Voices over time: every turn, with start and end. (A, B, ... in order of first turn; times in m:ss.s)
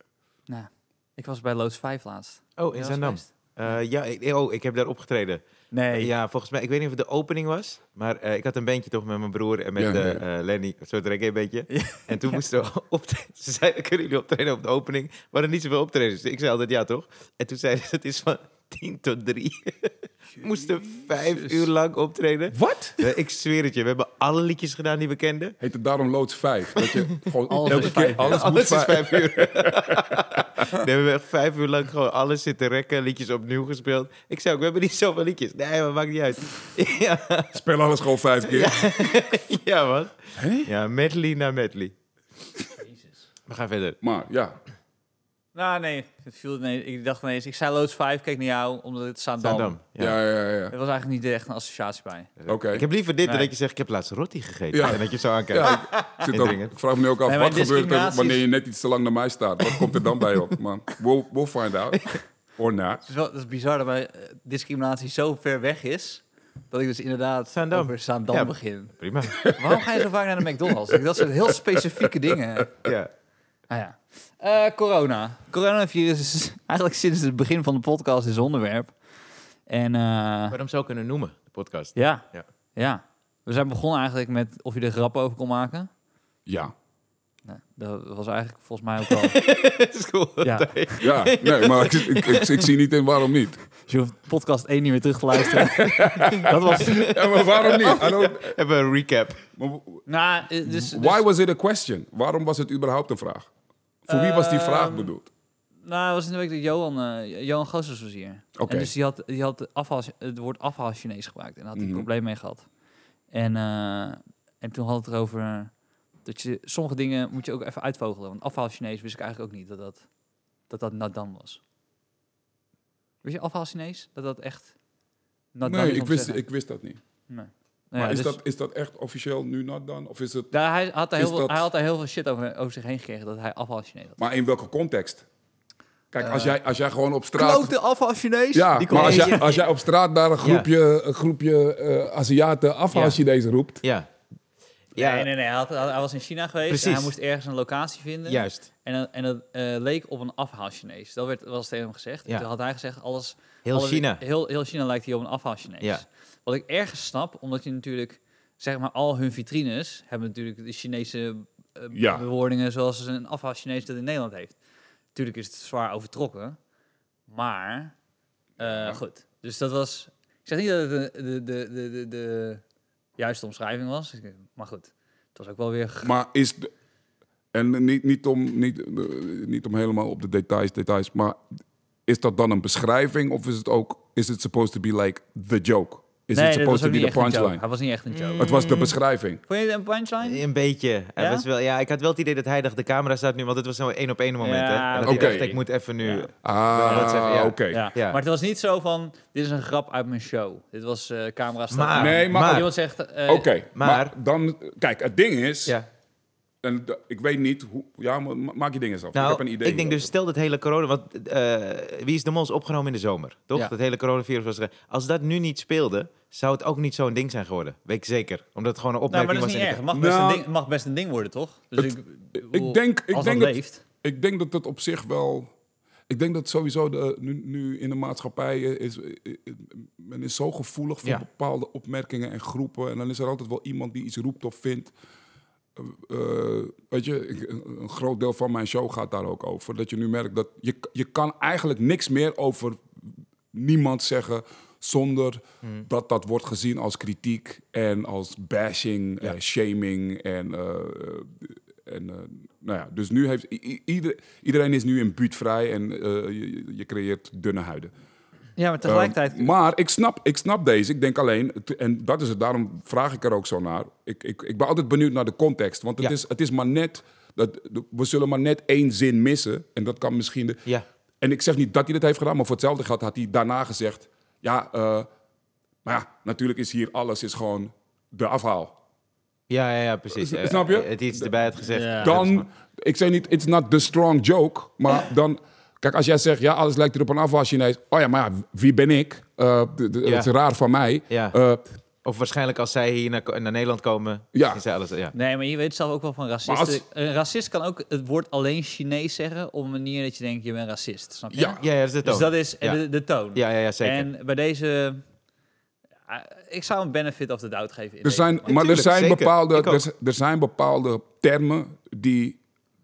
0:00.5-0:03.3 A
0:02.6-0:05.4 B
0:05.7-0:06.1 A
0:05.9-0:25.6 B
0:09.8-0:10.2 C
0:11.7-0:12.4 A
0:20.9-0:21.6 A
0:22.5-0:23.0 C
0:25.6-0:30.6 C
0:26.7-0:37.5 B
0:27.5-0:28.4 A
0:37.5-0:38.8 C
0:38.5-0:41.9 B
0:40.3-0:40.7 C
0:43.5-0:44.0 B
0:44.0-0:44.6 C
0:45.5-0:49.8 A
0:49.4-0:50.2 B
0:50.0-0:50.7 C
0:50.7-0:52.3 A
0:52.4-0:56.7 B
0:52.5-0:52.9 C
0:53.2-0:53.5 A
0:54.7-1:03.0 C
0:55.6-0:56.2 A
0:57.2-0:58.4 A
1:03.0-1:12.7 A
1:07.5-1:09.5 B
1:09.4-1:09.8 C
1:10.9-1:11.3 C
1:12.8-1:13.1 B
1:13.7-1:19.0 A
1:19.7-1:20.6 A
1:20.5-1:22.4 B
1:21.9-1:22.2 A
1:22.7-1:25.9 A
1:26.4-1:26.7 C
1:27.4-1:29.4 A
1:29.1-1:32.7 B
1:30.4-1:30.7 A
1:31.0-1:33.6 C
1:33.8-1:37.1 A
1:35.5-1:38.6 C
1:36.1-1:39.4 B
1:39.6-1:40.0 C
1:40.1-1:41.2 A
1:40.6-1:43.5 C
1:44.1-1:45.3 C
1:44.1-1:45.1 A
1:45.8-1:52.7 A
1:48.6-1:48.9 C
1:51.8-1:52.1 C
1:53.3-1:55.7 A
1:56.2-2:00.0 A
2:00.7-2:01.6 A
2:03.2-2:04.7 A
2:05.5-2:06.4 A
2:05.6-2:07.0 C
2:07.3-2:08.4 A
2:08.0-2:10.5 C
2:10.5-2:14.2 A
2:11.2-2:11.6 C
2:14.2-2:15.2 C
2:16.1-2:17.7 C
2:16.2-2:16.6 A
2:17.3-2:19.6 A
2:18.5-2:23.8 C
2:18.8-2:19.4 B
2:20.4-2:20.7 B
2:22.9-2:23.2 B
2:23.8-2:24.1 B
2:24.9-2:25.3 B
2:25.0-2:44.6 A
2:26.7-2:27.1 B
2:28.3-2:28.6 B
2:33.6-2:34.2 B
2:41.9-2:42.2 C
2:45.1-2:46.6 A
2:47.3-2:47.9 A
2:48.6-2:52.6 A
2:48.6-2:49.0 C
2:53.2-2:56.1 A
2:56.0-2:56.7 C
2:57.5-3:01.4 C
3:02.1-3:07.6 C
3:06.3-3:10.4 A
3:08.1-3:08.5 B
3:08.4-3:09.4 C
3:10.2-3:18.2 B
3:11.2-3:11.4 A
3:14.4-3:16.3 A
3:15.0-3:15.6 C
3:16.4-3:17.9 C
3:16.9-3:23.5 A
3:21.7-3:22.7 B
3:21.9-3:22.7 C
3:23.3-3:25.8 C
3:23.7-3:24.1 B
3:26.6-3:30.1 C
3:29.1-3:39.8 B
3:39.1-3:43.8 A
3:39.9-3:40.4 C
3:41.8-3:45.5 C
3:46.1-3:54.9 C
3:55.7-4:17.9 C
4:18.6-4:19.5 A
4:18.8-4:30.6 C
4:31.2-4:35.1 C
4:35.8-4:38.8 C
4:39.5-4:42.4 B
4:40.1-4:41.3 C
4:41.6-4:42.2 A
4:42.0-4:51.6 C
4:50.0-4:50.3 B
4:51.1-4:51.4 B
4:52.0-4:55.1 B
4:54.3-4:54.6 C
4:55.1-5:05.0 A
4:56.4-4:56.8 C
5:01.3-5:01.6 C
5:01.6-5:02.8 B
5:03.3-5:04.1 B
5:06.1-5:08.5 A
5:08.0-5:12.4 C
5:08.4-5:09.8 B